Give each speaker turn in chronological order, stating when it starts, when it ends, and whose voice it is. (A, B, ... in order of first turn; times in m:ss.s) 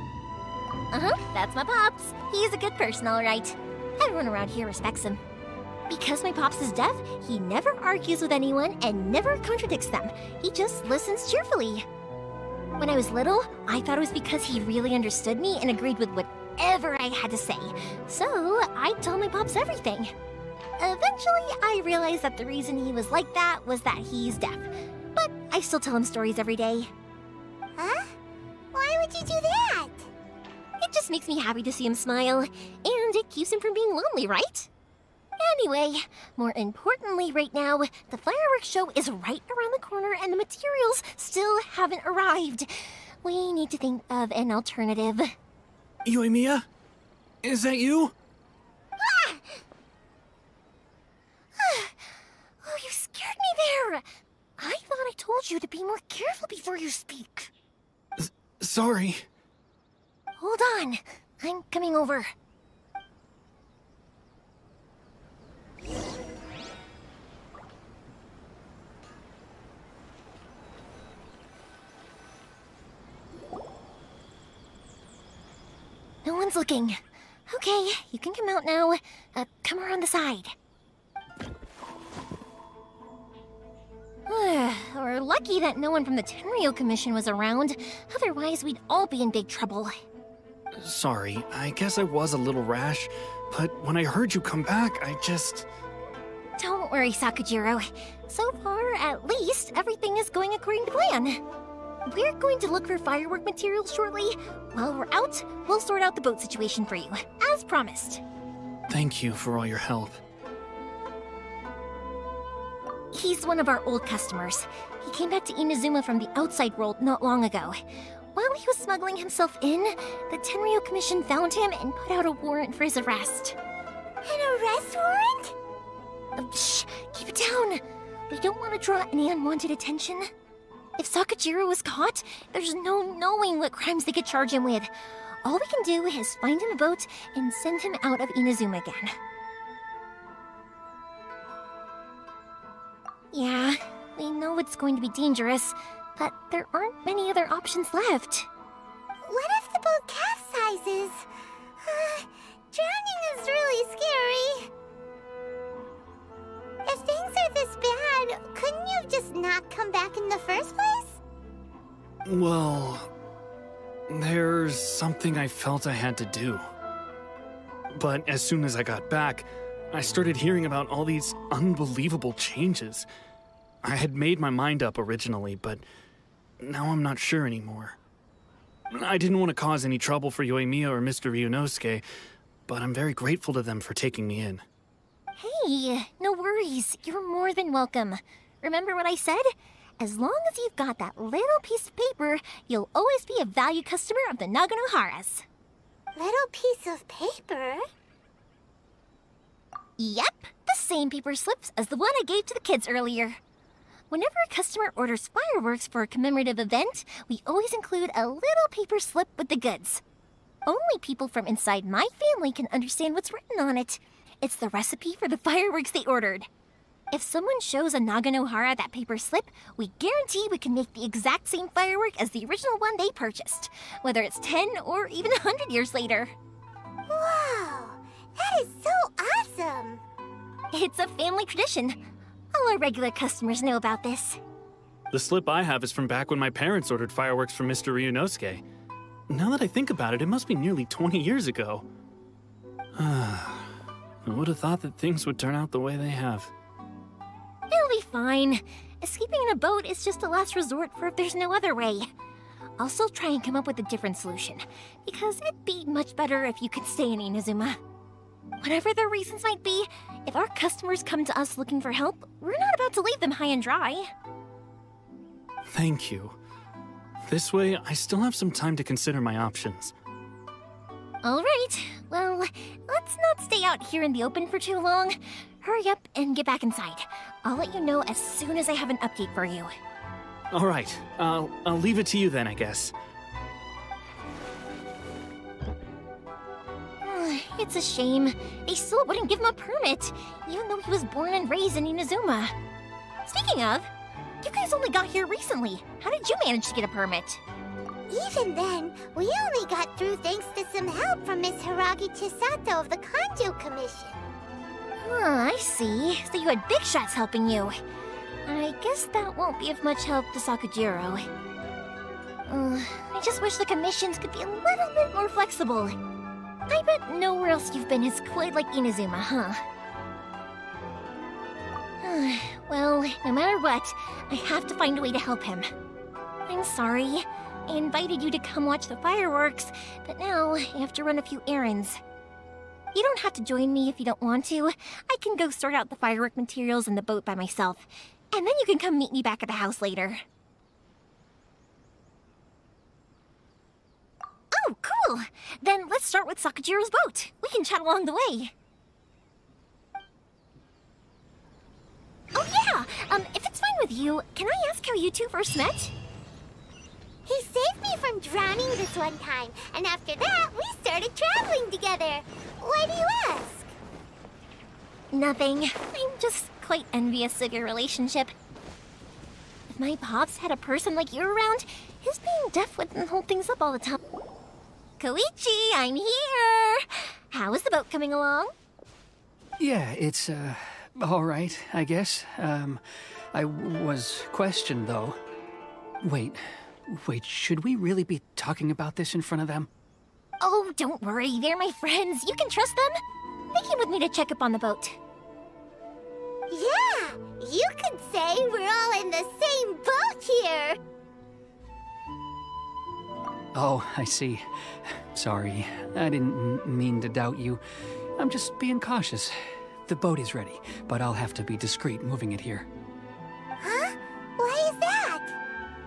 0:00.9-0:05.2 A
0:05.9-0:11.9 A
0:12.8-0:20.1 A
0:20.8-0:26.9 A
0:27.8-0:28.1 B
0:28.7-0:30.1 B
0:30.8-0:34.7 A
0:35.4-0:45.3 A
0:46.0-0:46.7 C
0:47.4-0:48.1 C
0:51.6-0:52.0 A
0:52.6-0:54.0 A
0:54.6-0:57.5 A
0:58.2-0:59.3 C
1:00.4-1:02.3 A
1:16.2-1:20.5 A
1:24.3-1:29.9 A
1:30.8-1:35.7 C
1:36.6-1:41.4 A
1:42.0-1:48.2 A
1:48.9-1:50.2 C
1:53.1-1:57.8 A
1:58.3-2:03.6 A
2:04.2-2:05.5 B
2:06.4-2:10.3 A
2:11.0-2:14.9 A
2:15.4-2:19.1 A
2:23.3-2:28.5 A
2:29.2-2:31.2 B
2:31.8-2:34.7 B
2:36.8-2:41.2 B
2:42.2-2:43.1 C
2:44.1-2:46.6 C
2:47.9-2:53.1 C
2:53.8-2:55.8 C
2:56.6-2:58.0 C
2:58.9-3:02.0 C
3:02.7-3:04.6 C
3:05.4-3:15.4 A
3:16.1-3:17.8 B
3:20.0-3:23.4 A
3:24.1-3:30.0 A
3:30.6-3:36.5 A
3:37.1-3:46.3 A
3:47.1-3:50.0 B
3:50.7-3:52.0 A
3:52.5-3:54.4 A
3:55.1-3:58.6 C
3:59.3-4:01.8 C
4:03.0-4:06.5 C
4:07.7-4:12.1 A
4:12.8-4:17.8 A
4:18.6-4:24.1 A
4:25.7-4:26.4 C
4:27.2-4:29.9 C
4:31.2-4:39.7 A
4:40.5-4:42.9 C
4:47.0-4:52.5 A
4:53.2-4:53.9 A
4:54.4-4:57.4 A
4:58.1-5:04.2 B
5:05.0-5:07.8 A
5:08.4-5:11.2 A
5:12.5-5:16.0 A
5:16.7-5:19.6 A
5:22.0-5:25.7 A
5:26.5-5:32.0 A
5:32.9-5:40.2 A
5:44.5-5:48.5 A
5:52.3-5:55.9 A
5:57.2-6:03.7 B
6:05.1-6:08.3 A
6:09.7-6:14.0 A
6:15.0-6:18.5 A
6:19.6-6:22.8 D
6:23.3-6:25.2 D
6:26.0-6:29.7 D
6:30.4-6:32.9 A
6:33.5-6:35.0 A
6:36.5-6:40.8 B
6:43.5-6:47.6 D
6:48.2-6:52.7 D
6:53.6-6:55.4 B